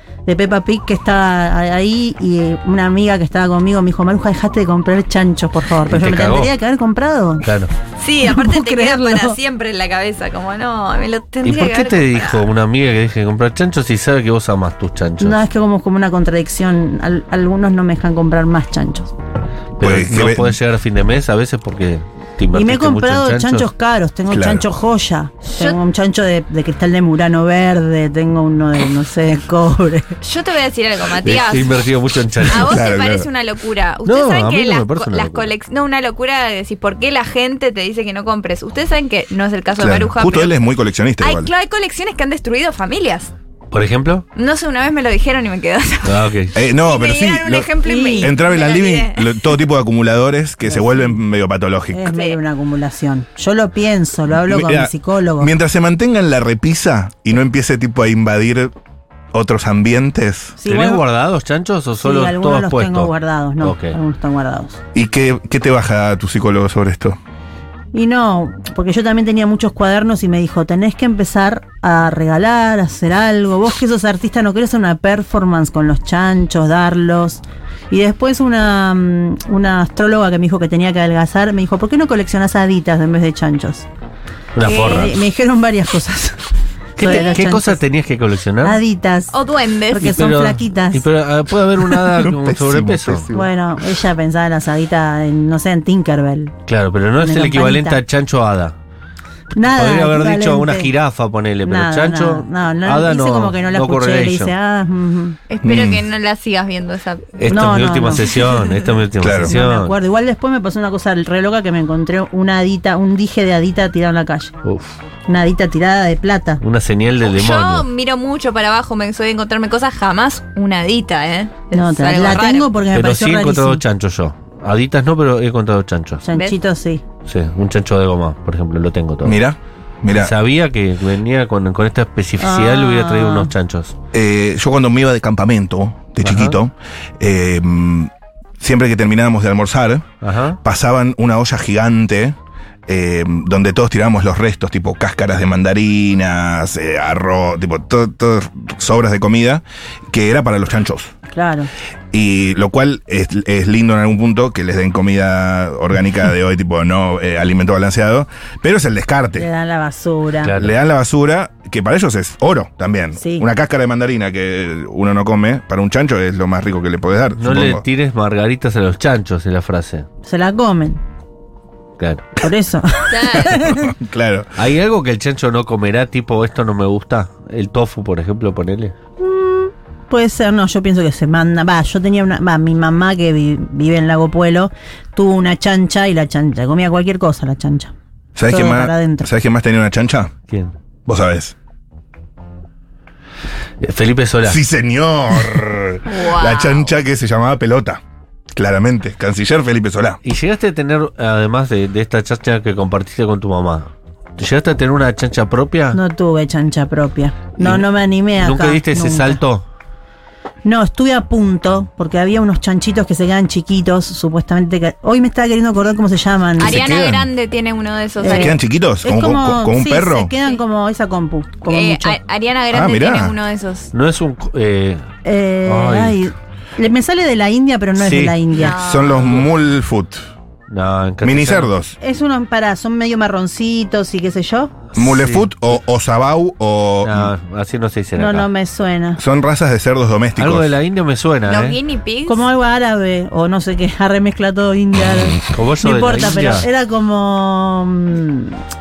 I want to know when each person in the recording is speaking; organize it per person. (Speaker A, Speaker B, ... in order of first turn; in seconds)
Speaker A: 0.3-7.5, 8.2-9.4, 15.2-19.1, 22.5-30.1, 47.8-48.4, 50.7-51.2, 51.9-55.5, 60.6-61.0, 62.0-64.8, 67.9-83.9, 84.6-86.4, 87.0-87.8, 88.6-89.4, 89.9-91.0, 93.3-96.5, 97.2-98.0, 99.5-100.9, 101.6-105.4, 107.5-108.3, 109.4-114.5, 115.3-116.6, 121.7-123.8, 126.2-127.0, 132.4-133.5, 151.3-151.7, 159.3-160.5, 163.2-163.5, 170.2-171.0, 172.4-173.9, 179.2-187.9, 188.5-189.3, 205.9-209.4, 210.7-216.8, 218.2-222.2, 225.2-228.8, 232.0-234.7, 238.2-239.2, 242.3-248.6
Speaker B: 5.9-6.5, 7.4-7.7, 11.4-15.4, 19.8-23.7, 31.2-32.8, 34.0-35.5, 43.7-44.3, 46.0-46.5, 60.7-64.0, 84.5-85.2, 87.0-88.8, 90.0-93.3, 96.7-98.8, 99.6-104.5, 107.4-109.9, 114.6-115.0, 116.6-117.9, 122.9-126.2, 127.2-129.4, 130.1-133.9, 136.2-136.6, 140.2-140.6, 160.4-160.7, 167.4-170.1, 172.0-172.3, 174.6-178.9, 193.8-194.6, 200.2-206.0, 207.6-207.8, 208.4-209.6, 223.9-225.1, 225.7-226.2, 228.0-228.4, 229.1-229.5, 230.7-231.7, 234.9-235.5, 237.0-238.5, 240.4-241.8, 245.5-246.7
Speaker C: 8.0-12.4, 30.2-31.8, 32.5-40.6, 41.2-43.3, 44.4-49.3, 52.0-52.4, 87.0-87.4, 89.3-90.2, 105.5-107.4, 117.2-122.7, 173.1-173.5, 196.1-196.9, 216.6-218.6, 221.7-223.9, 228.6-229.4, 241.5-242.4
Speaker D: 19.8-20.6, 24.3-24.7, 32.6-33.3, 39.8-41.5, 46.5-52.0, 54.4-58.7, 59.3-60.6, 64.9-67.2, 92.0-93.5, 105.6-106.1, 109.2-109.6, 129.2-130.3, 134.1-140.1, 140.6-142.4, 142.9-151.1, 152.1-159.5, 160.6-167.8, 173.4-174.5, 188.3-190.3, 191.1-191.6, 194.4-198.0, 198.5-200.2, 216.6-217.3, 218.2-220.3, 222.7-223.4, 228.7-230.3, 231.2-232.0, 234.9-237.3, 239.2-240.8